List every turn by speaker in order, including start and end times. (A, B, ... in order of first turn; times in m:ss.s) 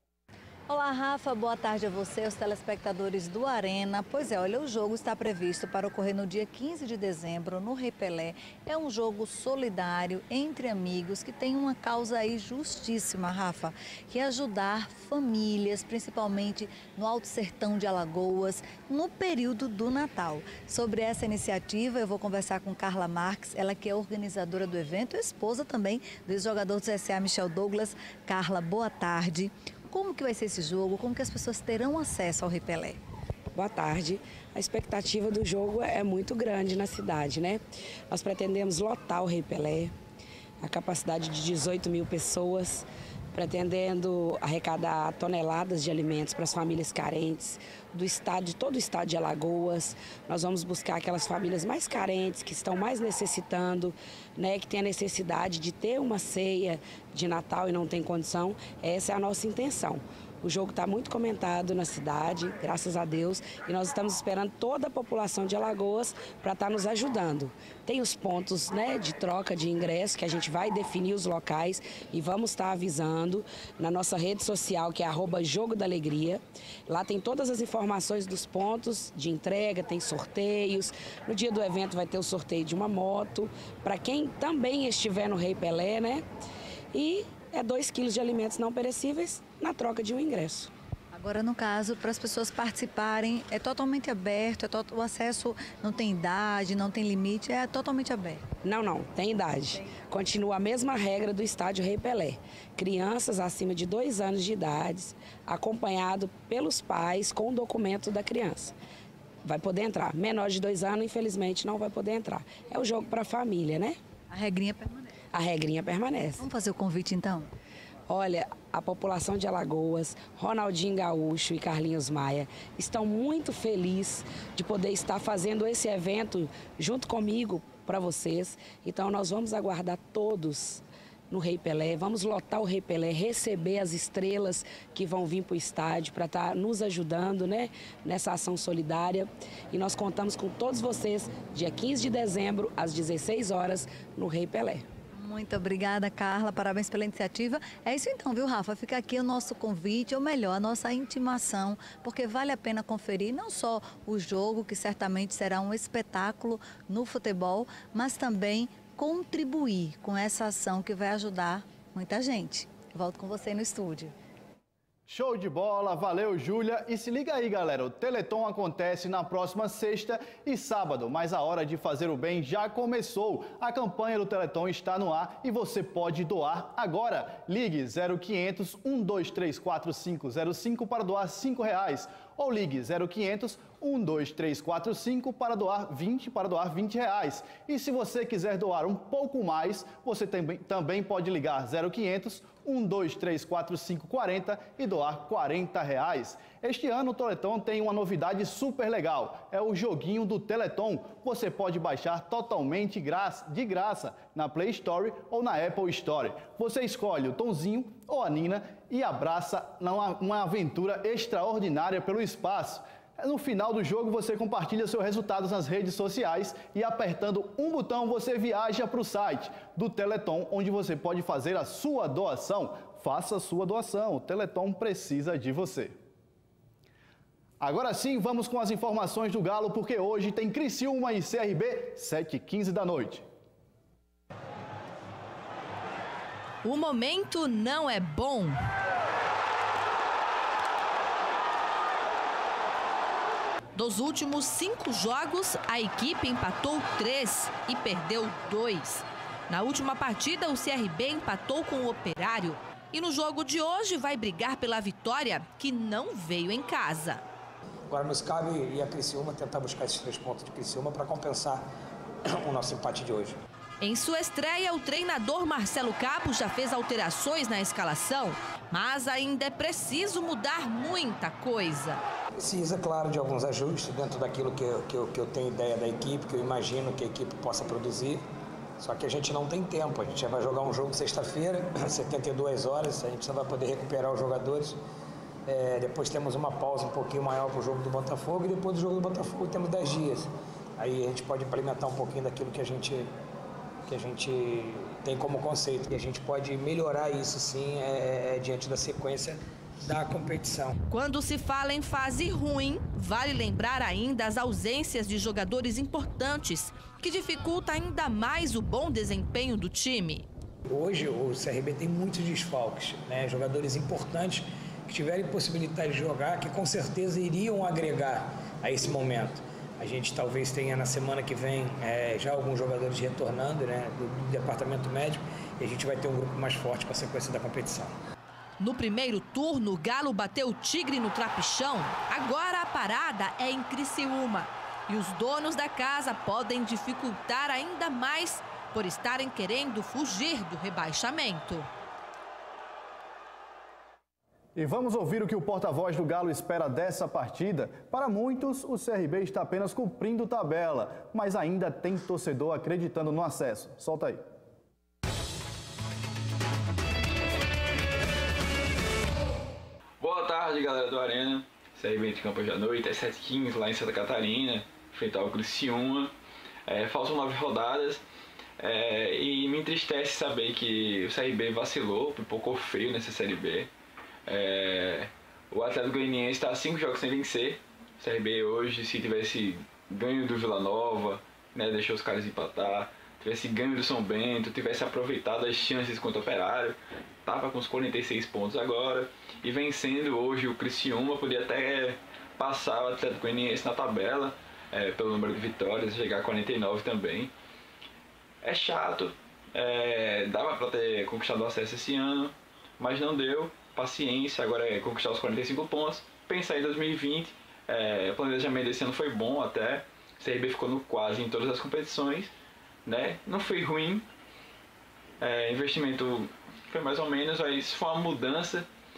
0:00.7-0:33.0 A
0:33.5-0:39.9 B
0:40.6-1:26.2 B
1:26.9-1:30.7 B
1:31.1-1:38.5 A
1:38.6-1:48.8 B
1:49.4-1:54.0 B
1:54.3-1:55.1 A
1:55.3-1:56.4 B
1:56.4-1:57.5 A
1:58.1-2:24.9 B
2:25.2-2:44.1 A
2:45.1-3:46.0 C
3:47.6-3:53.2 C
3:56.6-3:58.6 D
4:03.8-4:17.2 D
4:17.9-4:21.6 E
4:22.3-4:23.4 E
4:23.8-4:32.0 D
4:32.4-4:38.2 E
4:38.8-4:44.8 E
4:45.5-4:53.1 E
4:53.9-5:00.8 E
5:00.9-5:10.2 D
5:10.7-5:27.9 E
5:28.6-5:41.7 D
5:44.6-5:54.2 C
6:00.0-6:06.1 F
6:06.7-6:08.0 F
6:08.6-6:13.7 F
6:14.3-6:37.3 F
6:38.4-6:52.3 F
6:52.8-6:54.0 F
6:55.2-6:58.7 F